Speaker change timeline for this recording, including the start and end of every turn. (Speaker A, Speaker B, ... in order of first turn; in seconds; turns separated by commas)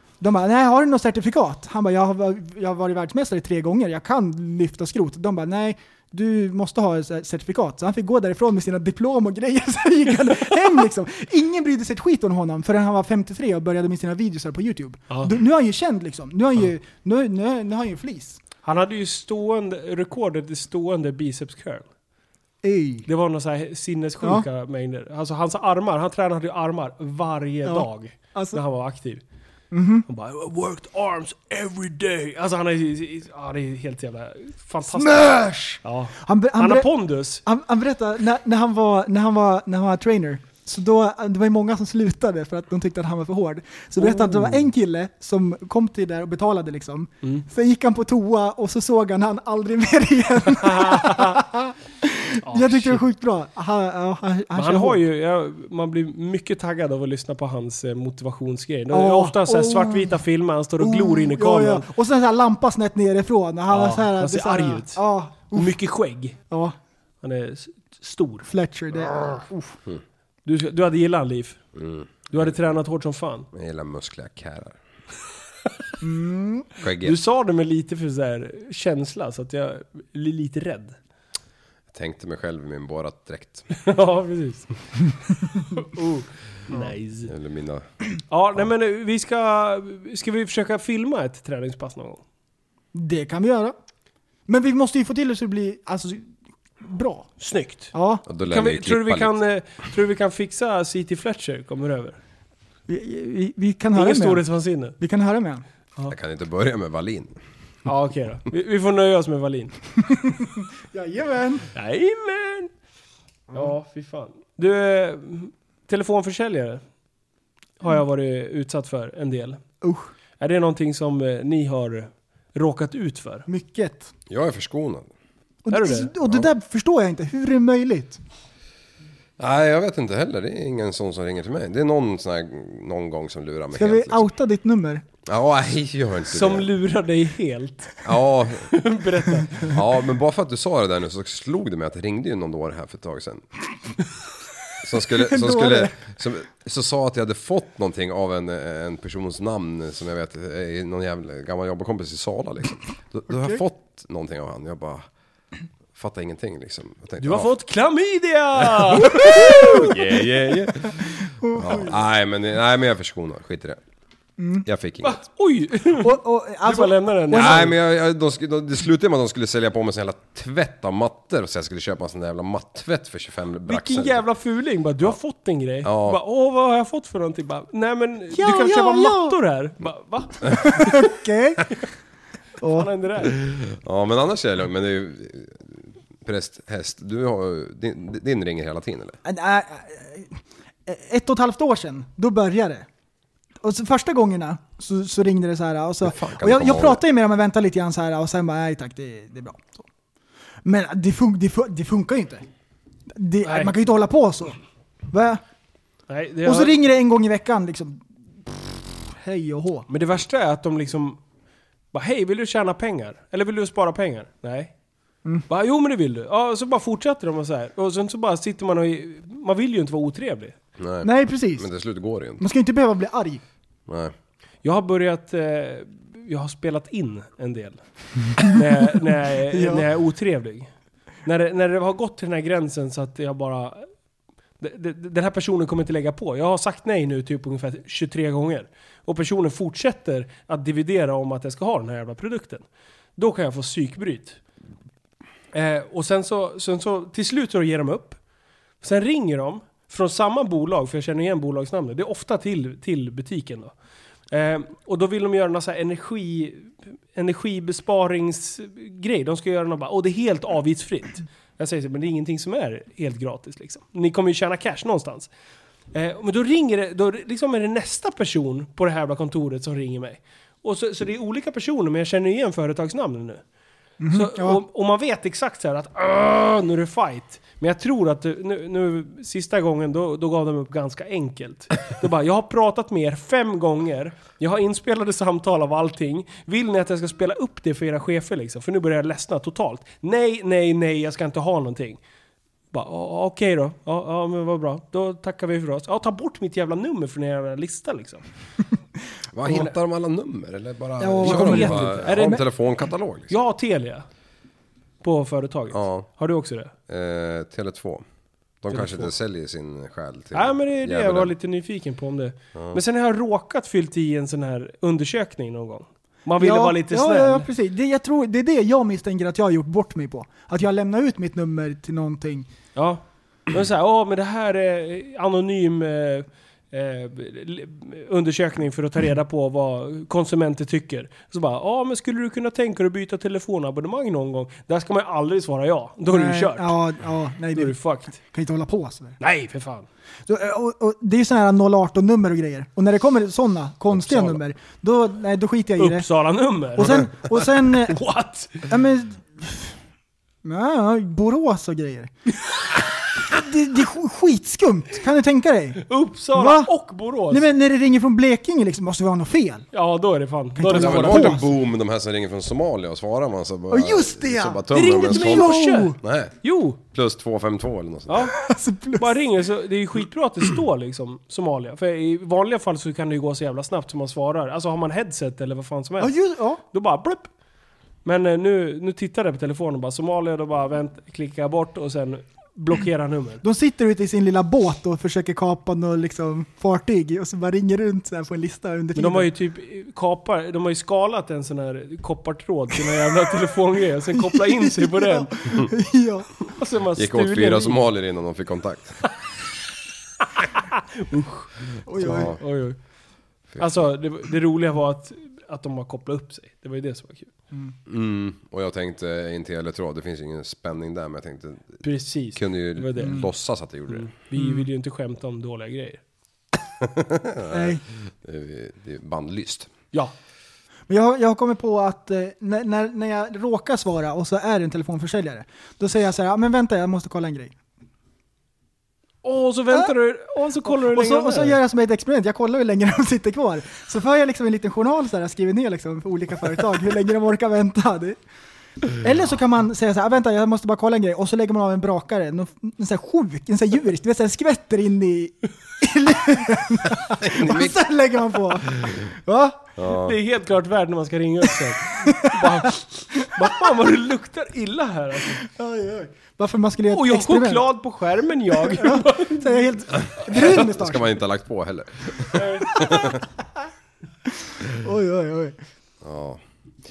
Speaker A: 0.2-18.4, Speaker B: 18.6-21.9, Speaker A: 22.6-23.1, Speaker B: 23.1-29.2, Speaker A: 27.6-28.6, Speaker A: 29.7-30.0, Speaker B: 30.1-35.3, Speaker A: 34.9-55.0, Speaker B: 35.8-37.4, Speaker B: 44.0-44.6, Speaker B: 50.6-51.4, Speaker B: 52.4-53.0, Speaker B: 54.5-61.9, Speaker A: 58.9-60.2, Speaker A: 60.8-65.7, Speaker B: 63.7-66.3, Speaker A: 66.5-66.7, Speaker B: 67.2-68.5, Speaker A: 68.5-69.7, Speaker B: 70.4-71.6, Speaker C: 71.7-72.5, Speaker B: 72.3-73.5, Speaker C: 73.5-74.8, Speaker A: 76.0-76.7, Speaker C: 76.8-77.2, Speaker B: 77.0-81.0, Speaker C: 81.9-83.7, Speaker B: 83.7-84.7, Speaker B: 85.7-87.3, Speaker C: 87.2-87.8, Speaker B: 88.3-92.2, Speaker A: 92.9-93.7, Speaker A: 94.5-96.3, Speaker A: 96.8-97.3, Speaker B: 97.4-97.9, Speaker A: 97.9-98.2, Speaker C: 98.2-99.3, Speaker B: 98.4-102.2, Speaker A: 102.9-104.4, Speaker B: 103.9-105.0, Speaker A: 105.0-105.6, Speaker C: 106.1-107.4, Speaker B: 107.8-109.8, Speaker A: 110.1-111.7, Speaker B: 111.7-112.7, Speaker B: 113.5-116.8, Speaker B: 117.8-119.6, Speaker A: 119.8-120.1, Speaker B: 120.4-123.5, Speaker A: 123.5-124.1, Speaker C: 124.3-125.1, Speaker A: 125.7-128.2, Speaker B: 125.7-126.1, Speaker C: 129.4-134.3, Speaker A: 133.7-135.0, Speaker C: 135.2-136.7, Speaker B: 136.2-138.0, Speaker C: 138.0-138.7, Speaker B: 138.6-139.8, Speaker C: 139.7-143.4, Speaker C: 144.8-155.0, Speaker A: 145.1-146.0, Speaker A: 153.3-153.6, Speaker C: 155.9-157.5, Speaker B: 157.2-159.9, Speaker C: 158.8-163.8, Speaker A: 159.5-159.9, Speaker A: 161.2-161.9, Speaker A: 164.4-164.7, Speaker C: 164.6-165.2, Speaker B: 165.0-167.7, Speaker A: 166.0-167.7, Speaker C: 167.3-174.2, Speaker B: 173.7-181.1, Speaker C: 175.8-176.2, Speaker A: 178.3-179.4, Speaker A: 180.6-181.7, Speaker A: 182.6-182.9, Speaker B: 182.6-183.4, Speaker C: 183.5-189.2, Speaker A: 189.2-192.8, Speaker A: 193.6-199.8, Speaker C: 196.0-197.0, Speaker A: 200.6-202.4, Speaker A: 203.1-204.6, Speaker B: 203.4-203.7, Speaker A: 205.1-205.4, Speaker B: 206.1-206.8, Speaker A: 206.4-209.9, Speaker B: 209.9-211.2, Speaker B: 211.9-214.7, Speaker B: 215.5-220.5, Speaker C: 220.8-222.4, Speaker A: 221.0-221.7, Speaker A: 222.4-223.4, Speaker C: 223.9-224.1, Speaker B: 224.6-227.8, Speaker B: 228.3-230.7, Speaker A: 229.5-229.8, Speaker B: 231.2-233.9, Speaker B: 234.6-242.6, Speaker B: 243.2-244.4, Speaker B: 245.5-248.2, Speaker B: 248.8-253.7, Speaker B: 254.3-265.3, Speaker B: 265.9-273.4, Speaker A: 274.0-274.6, Speaker B: 274.1-292.0, Speaker B: 292.7-298.2, Speaker C: 299.3-303.3, Speaker B: 299.4-299.7, Speaker A: 301.0-302.4, Speaker B: 301.2-302.4, Speaker B: 303.3-304.1, Speaker B: 305.0-306.7, Speaker C: 305.7-306.1, Speaker C: 306.9-308.0, Speaker C: 308.6-311.3, Speaker B: 308.7-309.1, Speaker B: 310.3-317.5, Speaker C: 312.5-312.8, Speaker A: 316.4-322.5, Speaker B: 322.7-336.7, Speaker A: 336.1-339.2, Speaker B: 337.5-338.1, Speaker B: 339.2-339.9, Speaker A: 340.3-346.1, Speaker B: 344.0-344.4, Speaker B: 345.8-348.7, Speaker A: 346.8-348.0, Speaker A: 348.6-349.7, Speaker A: 350.4-352.1, Speaker A: 353.2-356.7, Speaker B: 355.8-357.4, Speaker A: 357.3-359.7, Speaker B: 359.7-361.4, Speaker A: 360.6-361.5, Speaker C: 360.7-366.3, Speaker A: 363.7-366.0, Speaker B: 364.7-366.8, Speaker C: 366.8-368.3, Speaker B: 368.1-368.4, Speaker A: 368.3-369.2, Speaker B: 368.9-376.1, Speaker A: 376.0-376.6, Speaker B: 376.7-377.3, Speaker B: 378.0-383.4, Speaker A: 383.4-389.3, Speaker B: 388.9-395.4, Speaker A: 394.1-396.3, Speaker B: 396.4-397.8, Speaker C: 396.9-399.0, Speaker B: 400.3-402.8, Speaker A: 401.9-402.4, Speaker C: 402.0-402.4, Speaker B: 403.6-407.3, Speaker C: 407.9-411.8, Speaker B: 411.8-413.3, Speaker C: 412.4-414.1, Speaker A: 413.0-413.2, Speaker B: 413.9-416.0, Speaker A: 414.4-414.6, Speaker C: 416.8-419.7, Speaker A: 417.5-417.8, Speaker A: 420.9-427.5, Speaker B: 429.2-431.6, Speaker A: 430.5-438.2, Speaker A: 439.0-449.7, Speaker C: 447.1-447.8, Speaker C: 449.8-450.2, Speaker B: 449.9-455.4, Speaker A: 452.1-452.7, Speaker A: 455.4-457.6, Speaker B: 456.9-459.7, Speaker A: 458.6-461.1, Speaker C: 460.0-463.2, Speaker B: 462.3-462.8, Speaker A: 462.7-463.2, Speaker A: 464.5-465.6, Speaker C: 466.0-466.4